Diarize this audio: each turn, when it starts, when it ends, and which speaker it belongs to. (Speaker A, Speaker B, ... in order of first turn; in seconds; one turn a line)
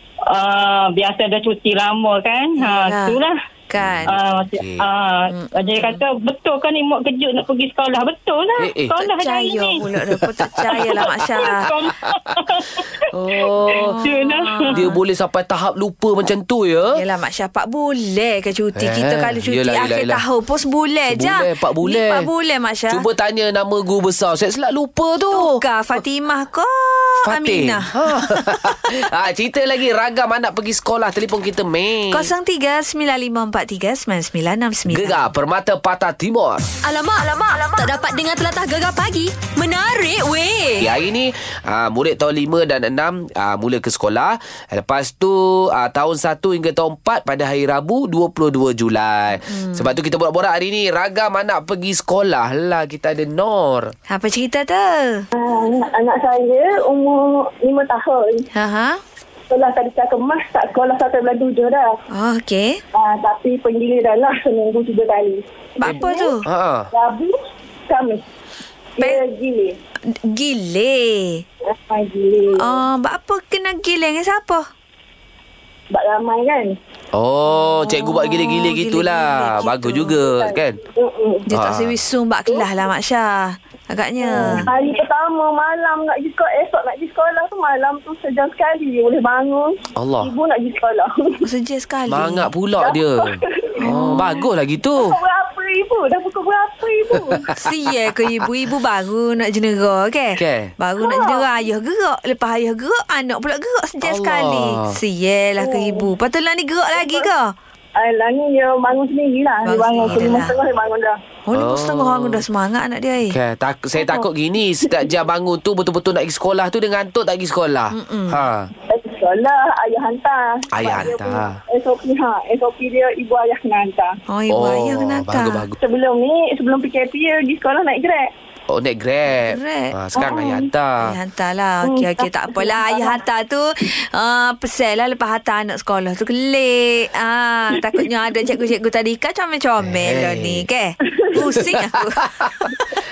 Speaker A: 0.3-3.3
Speaker B: 2.6-4.2
Speaker C: 3.8-4.9
Speaker A: 4.1-9.8
Speaker B: 5.3-6.0
Speaker C: 8.6-9.2
Speaker B: 9.2-11.7
Speaker C: 9.8-12.2
Speaker A: 10.7-14.7
Speaker C: 13.1-14.1
Speaker B: 13.8-15.0
Speaker C: 14.7-17.0
Speaker B: 16.9-23.0
Speaker C: 18.8-20.2
Speaker C: 21.1-22.3
Speaker C: 22.9-25.6
Speaker B: 25.3-28.7
Speaker C: 27.2-32.3
Speaker B: 32.1-35.2
Speaker C: 34.9-36.6
Speaker D: 36.8-40.8
Speaker C: 40.8-53.9
Speaker B: 49.4-49.9
Speaker B: 54.1-55.2
Speaker E: 55.3-58.5
Speaker B: 58.5-59.0
Speaker E: 59.5-61.9
Speaker B: 62.1-62.8
Speaker E: 62.9-65.4
Speaker B: 65.8-66.5
Speaker C: 65.8-66.9
Speaker E: 66.0-66.3
Speaker E: 66.9-67.3
Speaker E: 67.9-68.2
Speaker E: 69.0-69.7
Speaker B: 70.3-71.4
Speaker E: 71.7-72.8
Speaker B: 72.6-74.6
Speaker E: 75.9-76.8
Speaker C: 77.1-80.8
Speaker B: 77.6-80.2
Speaker E: 80.3-81.4
Speaker B: 81.5-83.4
Speaker C: 81.5-82.0
Speaker B: 83.9-84.7
Speaker E: 84.2-91.3
Speaker C: 84.3-84.7
Speaker C: 90.0-90.3
Speaker B: 91.4-92.5
Speaker C: 92.1-95.2
Speaker E: 93.4-94.2
Speaker B: 93.8-94.4
Speaker E: 95.0-97.4
Speaker C: 97.1-97.6
Speaker B: 97.5-107.5
Speaker C: 100.4-100.7
Speaker E: 101.0-101.5
Speaker C: 104.0-105.0
Speaker E: 105.6-106.1
Speaker E: 106.9-107.3
Speaker E: 108.0-111.2
Speaker B: 109.6-110.5
Speaker C: 110.0-110.3
Speaker B: 111.5-113.3
Speaker C: 111.5-112.4
Speaker C: 113.3-118.7
Speaker B: 117.9-118.4
Speaker E: 118.9-124.1
Speaker C: 120.7-121.6
Speaker B: 124.3-125.6
Speaker C: 124.5-125.7
Speaker E: 125.8-128.3
Speaker C: 128.7-131.2
Speaker B: 129.5-129.9
Speaker E: 130.2-130.6
Speaker B: 131.0-142.8
Speaker E: 131.8-133.2
Speaker C: 139.8-140.7
Speaker C: 141.5-142.7